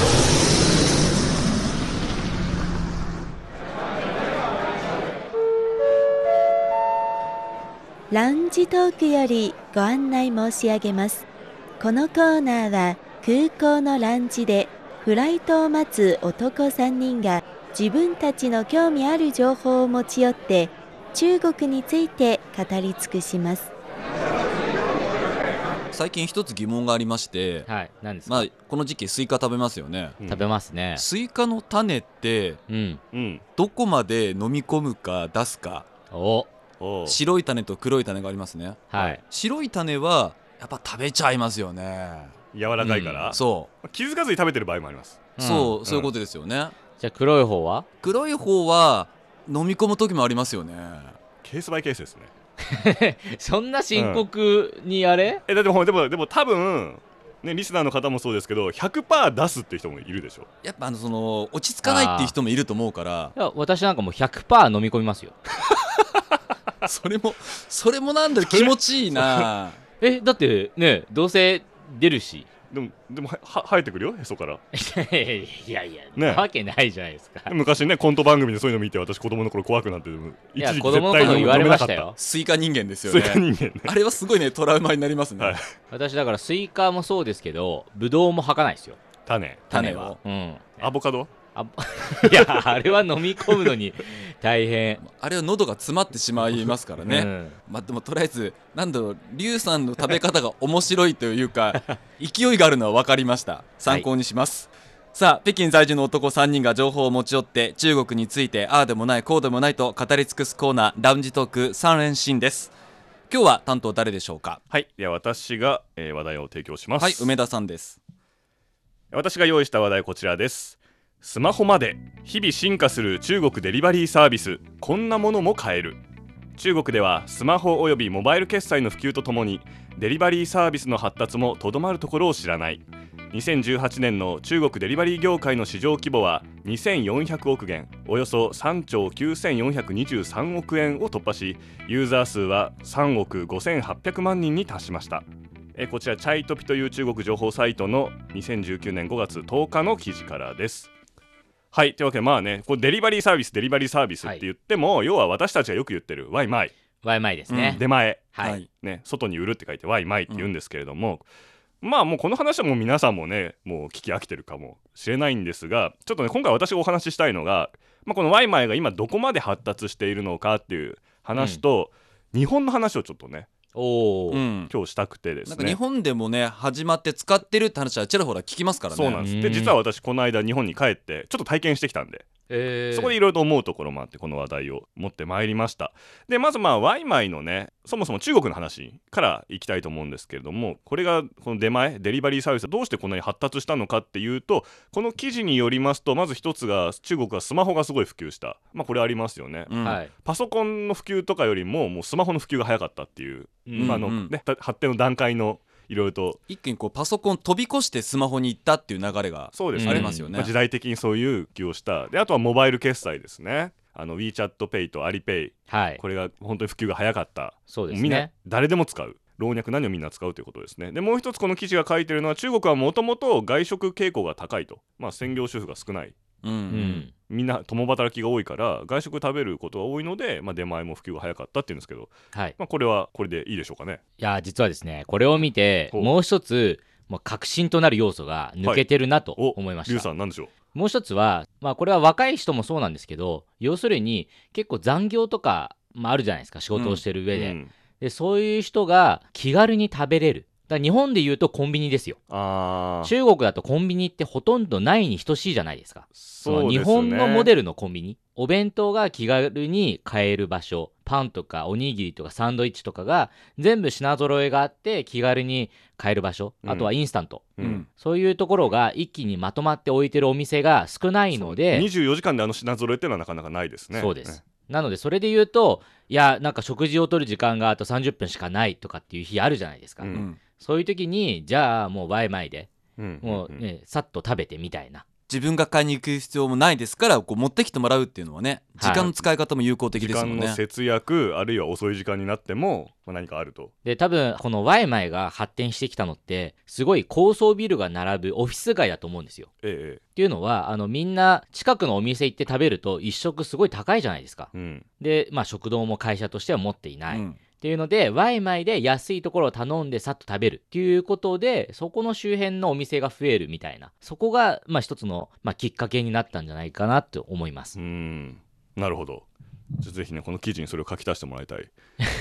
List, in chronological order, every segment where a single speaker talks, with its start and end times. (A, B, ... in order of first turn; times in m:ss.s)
0:08.1-0:11.3 A
0:11.8-0:23.7 A
0:25.9-0:27.7 B
0:27.7-0:28.5 C
0:28.3-0:30.2 B
0:30.2-0:30.5 D
0:30.3-0:31.0 C
0:31.0-0:32.6 B
0:32.7-0:33.0 C
0:33.1-0:33.4 D
0:33.6-0:35.9 B
0:36.1-0:36.5 C
0:36.8-0:37.2 D
0:37.0-0:42.4 B
0:38.9-0:39.2 C
0:42.5-0:46.1 D
0:42.8-0:43.3 C
0:43.3-0:43.7 B
0:45.4-0:45.8 C
0:45.4-0:46.8 B
0:47.0-0:47.9 C
0:48.0-0:51.2 B
0:51.4-0:52.3 D
0:52.7-0:55.4 C
0:53.9-0:54.3 D
0:55.5-1:00.5 D
1:00.6-1:03.4 B
1:01.8-1:02.4 C
1:03.4-1:05.4 C
1:06.8-1:09.8 B
1:08.4-1:09.5 D
1:10.0-1:12.5 C
1:12.7-1:14.6 D
1:14.7-1:17.6 C
1:16.2-1:16.5 D
1:17.5-1:22.1 D
1:20.6-1:22.2 C
1:21.2-1:25.6 B
1:23.0-1:23.9 D
1:25.4-1:25.7 D
1:25.9-1:29.0 C
1:29.3-1:29.9 D
1:29.7-1:30.2 B
1:29.7-1:30.9 C
1:30.8-1:31.3 D
1:31.6-1:35.0 C
1:32.3-1:32.8 D
1:33.5-1:33.7 D
1:35.0-1:52.7 B
1:37.0-1:37.6 C
1:53.3-1:54.6 B
1:54.7-1:57.3 D
1:57.0-1:58.0 B
1:59.1-2:06.0 D
2:06.6-2:30.9 D
2:31.7-2:36.7 D
2:37.0-2:38.6 C
2:37.5-2:37.8 B
2:37.8-2:41.3 D
2:38.4-2:38.7 B
2:41.8-2:53.5 D
2:51.4-2:51.6 C
2:53.7-2:54.4 C
2:54.3-2:54.7 B
2:54.7-2:55.8 D
2:55.5-2:59.2 B
2:58.9-3:02.3 D
2:59.2-2:59.8 C
3:02.5-3:03.2 C
3:02.9-3:26.4 D
3:19.7-3:20.0 B
3:19.8-3:20.1 C
3:23.7-3:24.0 C
3:23.8-3:24.3 B
3:26.5-3:30.5 B
3:29.5-3:46.2 D
3:29.8-3:30.3 C
3:35.7-3:36.0 C
3:37.7-3:38.3 C
3:46.4-3:47.0 B
3:46.7-3:47.1 C
3:47.3-3:54.0 D
3:54.2-4:00.1 C
3:58.6-4:00.5 D
4:00.7-4:12.2 C
4:06.7-4:07.0 B
4:07.3-4:07.7 D
4:12.3-4:13.2 D
4:13.0-4:31.9 C
4:16.2-4:17.5 D
4:26.6-4:26.9 D
4:27.6-4:27.8 D
4:27.6-4:27.9 B
4:31.3-4:34.4 D
4:33.9-4:42.7 C
4:40.0-4:40.3 D
4:40.1-4:40.4 B
4:43.0-4:43.6 D
4:43.2-4:45.0 C
4:45.3-4:50.6 B
4:48.8-4:49.1 C
4:50.0-4:53.7 D
4:53.8-4:59.5 C
4:59.6-5:00.0 D
5:00.2-5:17.8 C
5:04.5-5:04.8 D
5:07.1-5:07.4 B
5:17.8-5:19.3 D
5:19.8-5:21.7 D